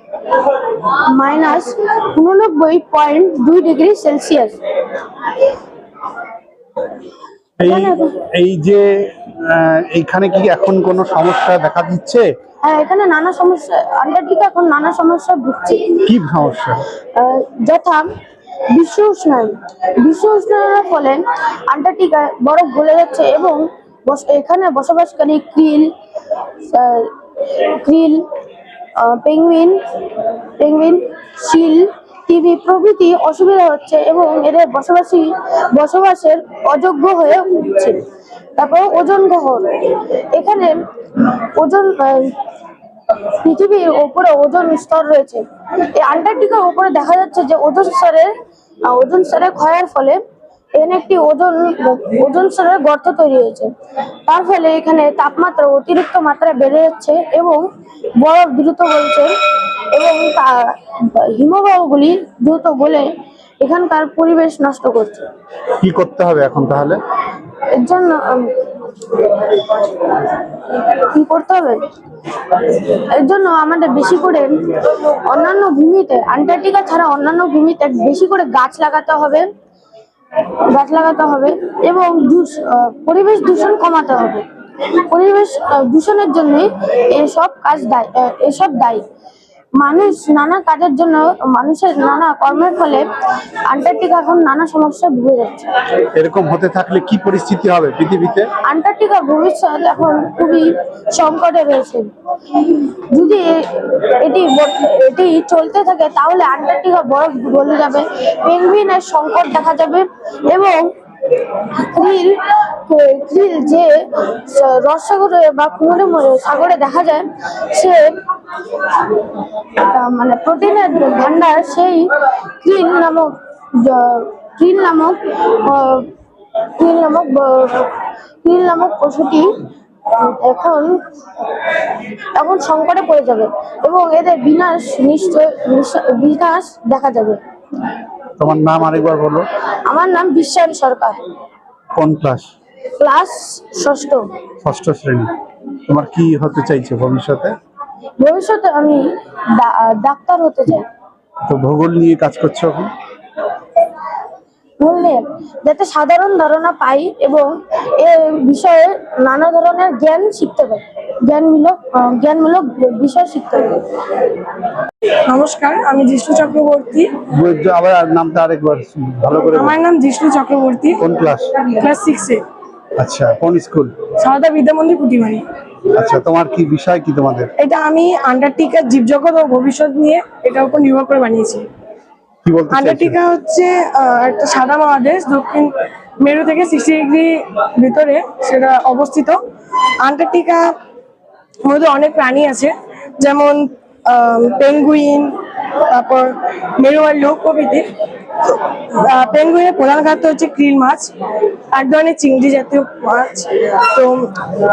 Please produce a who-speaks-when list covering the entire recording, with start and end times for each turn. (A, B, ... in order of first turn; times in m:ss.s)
0:00.8-0:04.6 A
0:07.6-0:12.2 B
0:07.7-0:08.1 A
0:12.6-0:16.0 A
0:16.0-0:16.8 B
0:17.2-0:18.0 A
0:18.7-0:25.9 A
0:26.7-0:28.2 A
0:29.0-0:29.8 A
0:30.6-0:38.0 A
0:38.6-0:40.8 A
0:41.4-0:42.4 A
0:43.4-0:48.3 A
0:48.8-0:50.2 A
0:50.8-0:53.7 A
0:54.3-0:57.6 A
0:58.2-0:59.3 A
0:59.9-1:03.1 A
1:03.6-1:05.2 A
1:05.8-1:07.0 B
1:07.7-1:08.5 A
1:10.9-1:11.8 A
1:12.9-1:19.5 A
1:20.7-1:24.4 A
1:25.1-1:29.0 A
1:29.8-1:33.1 A
1:33.6-1:35.7 A
1:36.1-1:38.5 B
1:38.7-1:42.1 A
1:42.7-1:50.9 A
1:51.5-1:58.2 A
1:59.8-2:02.1 A
2:02.6-2:06.1 A
2:06.8-2:07.9 A
2:08.4-2:09.5 A
2:10.1-2:11.0 A
2:12.4-2:17.4 A
2:18.4-2:19.4 B
2:19.8-2:21.2 A
2:22.0-2:22.5 B
2:23.0-2:24.2 A
2:24.6-2:25.3 B
2:25.9-2:27.6 B
2:28.2-2:29.0 A
2:29.6-2:30.8 A
2:31.5-2:32.9 B
2:34.8-2:43.8 A
2:45.3-2:47.2 C
2:47.3-2:49.8 B
2:49.5-2:51.0 C
2:51.0-2:51.5 B
2:51.6-2:52.4 C
2:53.0-2:53.9 B
2:54.2-2:55.4 C
2:55.9-2:57.5 B
2:57.6-3:01.6 C
3:02.4-3:03.2 B
3:02.7-3:09.4 C
3:10.0-3:10.6 C
3:11.6-3:15.4 C
3:15.9-3:17.8 C
3:18.4-3:21.1 C
3:21.7-3:24.3 C